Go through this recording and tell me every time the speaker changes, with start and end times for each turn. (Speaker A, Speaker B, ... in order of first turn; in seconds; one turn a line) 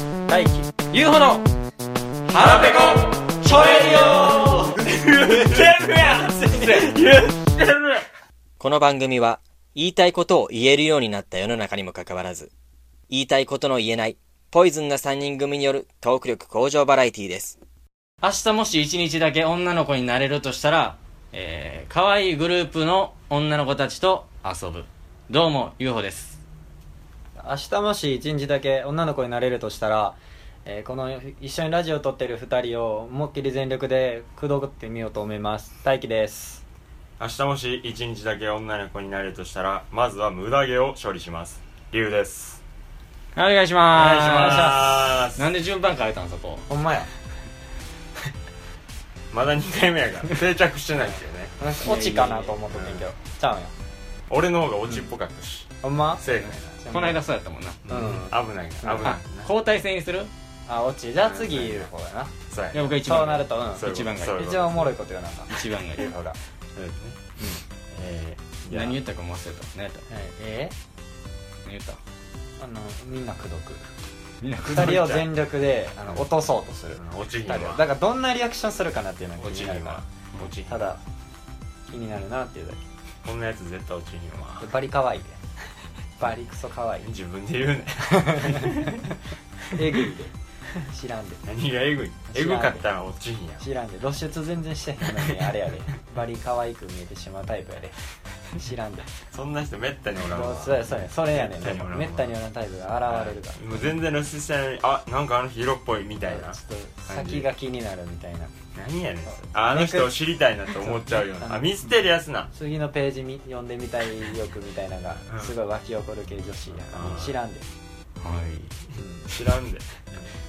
Speaker A: 0.3-0.7
Speaker B: 0.9-1.4
Speaker B: 2.3-4.8
Speaker C: 2.4-2.9
Speaker C: 4.8-7.6
Speaker B: 6.7-7.0
Speaker B: 7.6-7.9
Speaker B: 8.6-12.5
Speaker B: 13.1-17.6
Speaker D: 18.2-26.4
Speaker A: 27.4-36.6
Speaker C: 37.2-42.6
Speaker D: 43.4-46.7
Speaker C: 43.9-45.5
Speaker A: 44.3-45.1
Speaker A: 46.7-47.1
Speaker C: 49.3-51.6
Speaker A: 51.6-53.7
Speaker D: 51.8-52.6
Speaker C: 52.7-53.0
Speaker C: 54.3-56.8
Speaker A: 55.8-56.2
Speaker A: 56.8-57.2
Speaker D: 56.9-57.9
Speaker C: 57.9-59.5
Speaker A: 57.9-59.1
Speaker D: 59.0-60.3
Speaker A: 60.7-62.3
Speaker C: 61.2-61.9
Speaker C: 62.5-63.0
Speaker D: 62.7-64.5
Speaker A: 63.0-66.4
Speaker C: 63.7-65.0
Speaker D: 65.5-66.1
Speaker C: 66.8-67.2
Speaker C: 67.9-69.0
Speaker D: 68.7-70.0
Speaker A: 70.1-70.7
Speaker D: 71.6-72.0
Speaker A: 72.6-73.8
Speaker D: 74.4-75.2
Speaker A: 74.6-80.0
Speaker C: 74.7-75.3
Speaker C: 77.0-77.9
Speaker C: 79.4-81.0
Speaker A: 80.7-81.0
Speaker A: 81.9-82.8
Speaker C: 83.2-84.7
Speaker A: 84.6-85.4
Speaker A: 86.2-87.1
Speaker C: 87.0-89.1
Speaker A: 88.0-89.0
Speaker A: 89.7-91.4
Speaker C: 91.5-93.7
Speaker A: 92.3-92.8
Speaker A: 93.6-98.0
Speaker C: 95.1-95.5
Speaker A: 98.5-99.1
Speaker C: 99.3-102.3
Speaker A: 100.3-103.6
Speaker C: 103.1-107.5
Speaker A: 106.3-108.5
Speaker C: 108.8-112.5
Speaker A: 109.6-110.2
Speaker A: 110.8-111.7
Speaker A: 112.5-117.7
Speaker C: 115.3-115.5
Speaker C: 116.9-117.4
Speaker D: 118.2-118.8
Speaker A: 119.0-119.3
Speaker C: 119.3-120.0